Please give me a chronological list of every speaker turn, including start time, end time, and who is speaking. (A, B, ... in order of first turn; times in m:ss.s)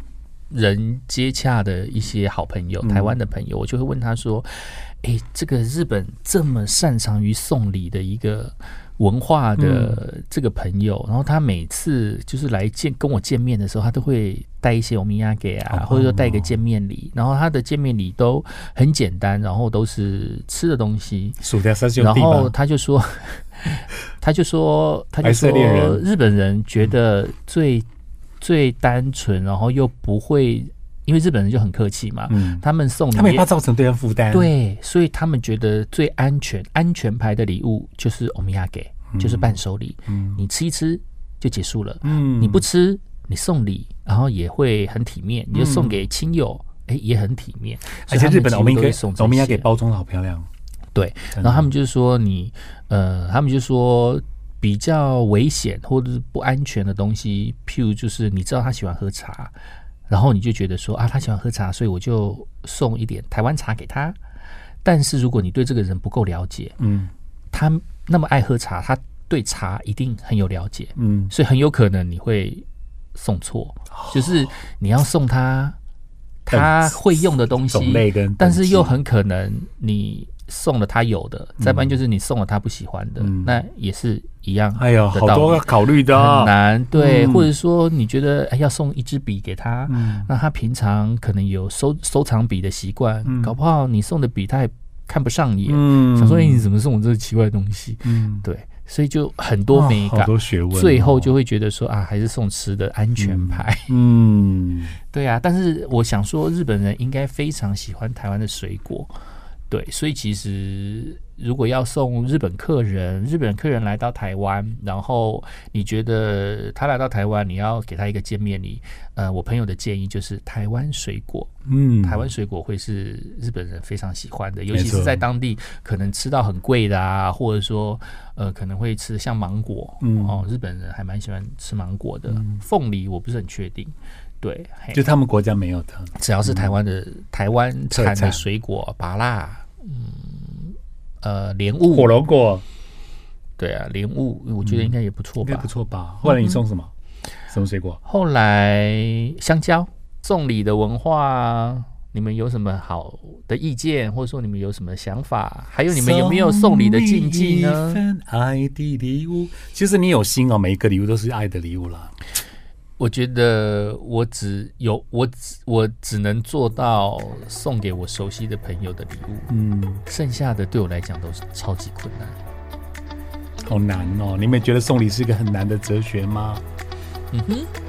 0:00.5-0:21.4 A
0:02.8-0:03.2 B
0:09.6-0:10.0 B
0:15.7-0:16.6 B
0:21.4-0:22.5 B
0:22.0-0:27.9 A
0:25.2-0:26.0 B
0:28.4-0:33.5 A
0:32.3-0:34.5 B
0:34.3-0:49.7 A
0:39.1-0:39.6 B
0:40.1-0:40.4 B
0:42.0-0:42.6 B
0:45.5-0:46.0 B
0:48.0-0:50.5 B
0:50.9-0:59.5 A
0:51.3-0:51.7 B
1:00.1-1:04.2 A
1:04.8-1:06.8 A
1:06.8-1:07.1 B
1:07.5-1:15.8 A
1:11.0-1:11.3 B
1:13.9-1:14.4 B
1:16.5-1:43.9 A
1:16.5-1:19.0 B
1:21.6-1:22.0 B
1:23.2-1:23.6 B
1:24.8-1:27.5 B
1:29.9-1:30.3 B
1:33.2-1:33.5 B
1:35.7-1:36.7 B
1:38.0-1:38.4 B
1:39.7-1:41.3 B
1:43.2-1:45.0 B
1:45.1-1:49.1 A
1:49.7-2:01.5 A
2:01.7-2:02.3 B
2:02.0-2:15.0 A
2:04.7-2:05.2 B
2:10.0-2:10.4 B
2:12.3-2:12.6 B
2:14.9-2:16.7 B
2:16.2-2:22.1 A
2:17.9-2:18.4 B
2:21.9-2:22.6 B
2:23.6-2:25.7 A
2:24.6-2:26.9 B
2:26.2-2:26.6 A
2:27.5-2:28.0 B
2:28.0-2:38.0 A
2:35.9-2:42.1 B
2:43.0-2:49.5 A
2:49.5-2:50.0 B
2:50.1-2:52.4 A
2:53.7-2:56.6 B
2:57.3-2:57.7 A